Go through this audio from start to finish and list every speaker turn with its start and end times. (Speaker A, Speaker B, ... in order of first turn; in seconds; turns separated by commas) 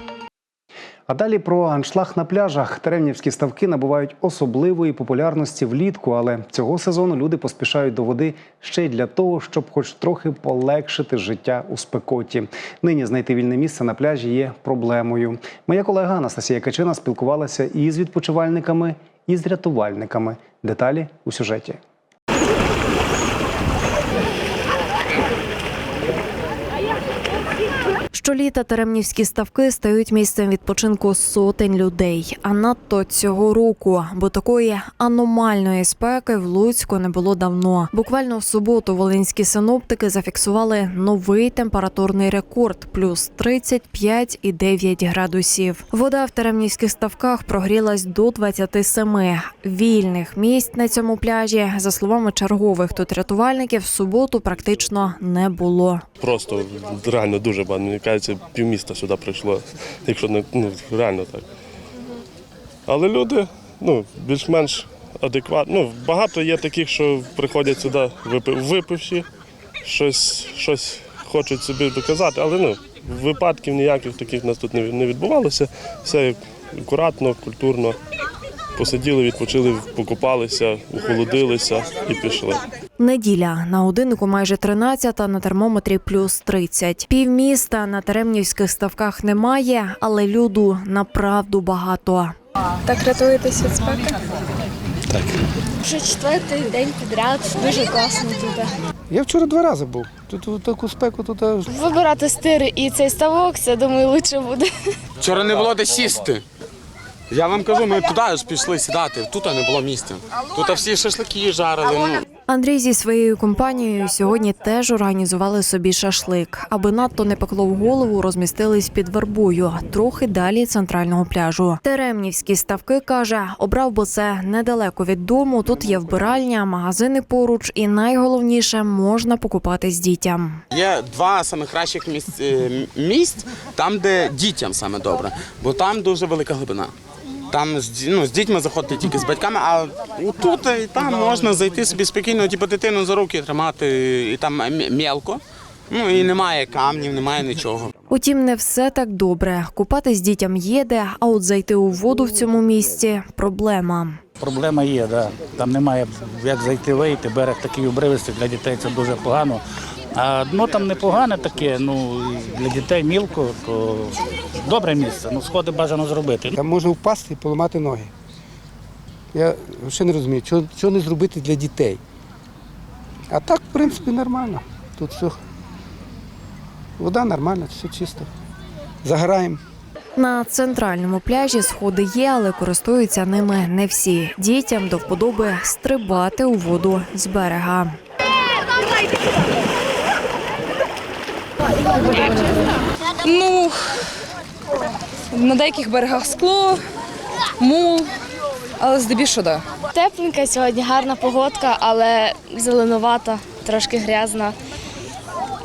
Speaker A: 1.1-21.8, Speaker B: 28.1-56.0, Speaker C: 56.2-61.5, Speaker C: 62.9-69.2, Speaker C: 69.8-78.0, Speaker C: 78.8-82.6, Speaker B: 83.0-92.3, Speaker B: 92.9-94.2, Speaker D: 95.8-98.7, Speaker E: 99.1-101.7, Speaker D: 101.7-104.7, Speaker F: 105.2-106.4, Speaker F: 107.3-112.2, Speaker B: 112.5-130.6, Speaker F: 130.7-136.9, Speaker F: 137.5-147.9, Speaker B: 148.1-154.2, Speaker G: 154.4-159.6, Speaker G: 160.2-166.5, Speaker E: 166.5-168.1, Speaker E: 169.3-172.0, Speaker E: 173.3-175.4, Speaker E: 177.0-178.3, Speaker E: 179.0-179.6, Speaker B: 180.2-188.0, Speaker H: 192.0-192.5, Speaker H: 193.2-193.8, Speaker H: 195.3-196.8, Speaker H: 197.6-198.1, Speaker H: 198.8-199.6, Speaker D: 199.9-204.6